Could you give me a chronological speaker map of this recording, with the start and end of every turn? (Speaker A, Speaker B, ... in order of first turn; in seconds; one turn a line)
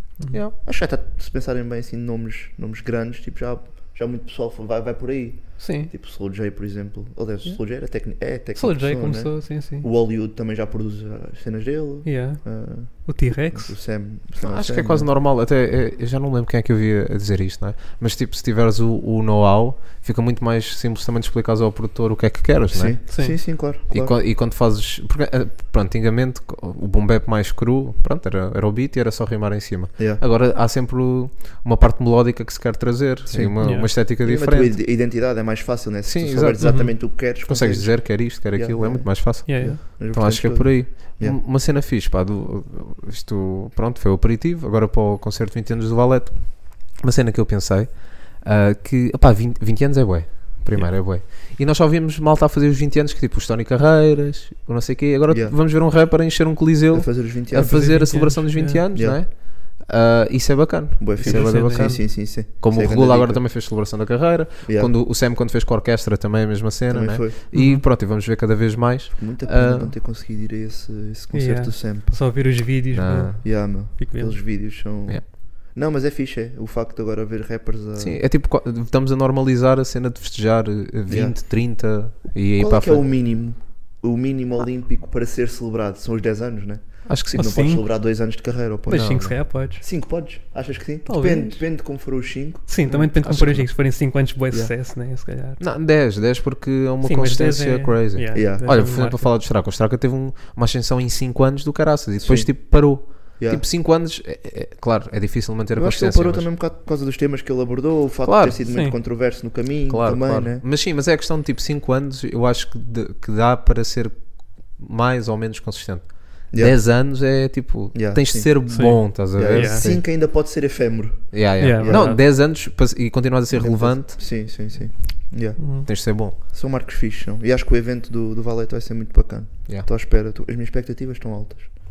Speaker A: 0.6-15.1
Speaker B: 5.6-5.9
Speaker B: 8.5-9.9
Speaker B: 12.0-13.8
Speaker C: 14.4-34.8
Speaker A: 22.7-24.1
Speaker B: 23.1-23.4
Speaker A: 30.0-30.2
Speaker A: 33.3-41.4
Speaker B: 33.6-33.9
Speaker C: 36.0-69.9
Speaker B: 36.6-36.9
Speaker B: 39.4-39.8
Speaker A: 55.3-55.6
Speaker A: 56.9-58.0
Speaker B: 57.5-58.8
Speaker A: 58.9-59.2
Speaker A: 61.0-63.5
Speaker B: 61.2-62.0
Speaker A: 64.6-65.0
Speaker A: 66.9-67.4
Speaker B: 67.5-67.8
Speaker A: 69.2-72.2
Speaker B: 71.3-74.4
Speaker C: 72.9-73.9
Speaker A: 73.4-78.2
Speaker C: 74.8-75.3
Speaker C: 78.0-83.0
Speaker A: 81.1-81.4
Speaker A: 82.5-93.5
Speaker C: 87.0-87.6
Speaker B: 87.3-87.8
Speaker B: 88.9-89.8
Speaker C: 88.9-89.4
Speaker B: 91.0-91.6
Speaker B: 92.7-95.6
Speaker C: 92.9-93.7
Speaker C: 95.6-106.5
Speaker B: 97.0-99.3
Speaker A: 98.3-98.7
Speaker A: 102.2-103.6
Speaker A: 105.7-110.6
Speaker C: 108.2-108.6
Speaker B: 108.7-109.0
Speaker C: 109.9-120.0
Speaker A: 116.5-116.9
Speaker A: 117.9-122.2
Speaker B: 118.7-119.9
Speaker C: 121.3-124.8
Speaker B: 121.6-122.2
Speaker A: 123.5-131.8
Speaker B: 125.6-125.9
Speaker C: 125.8-126.3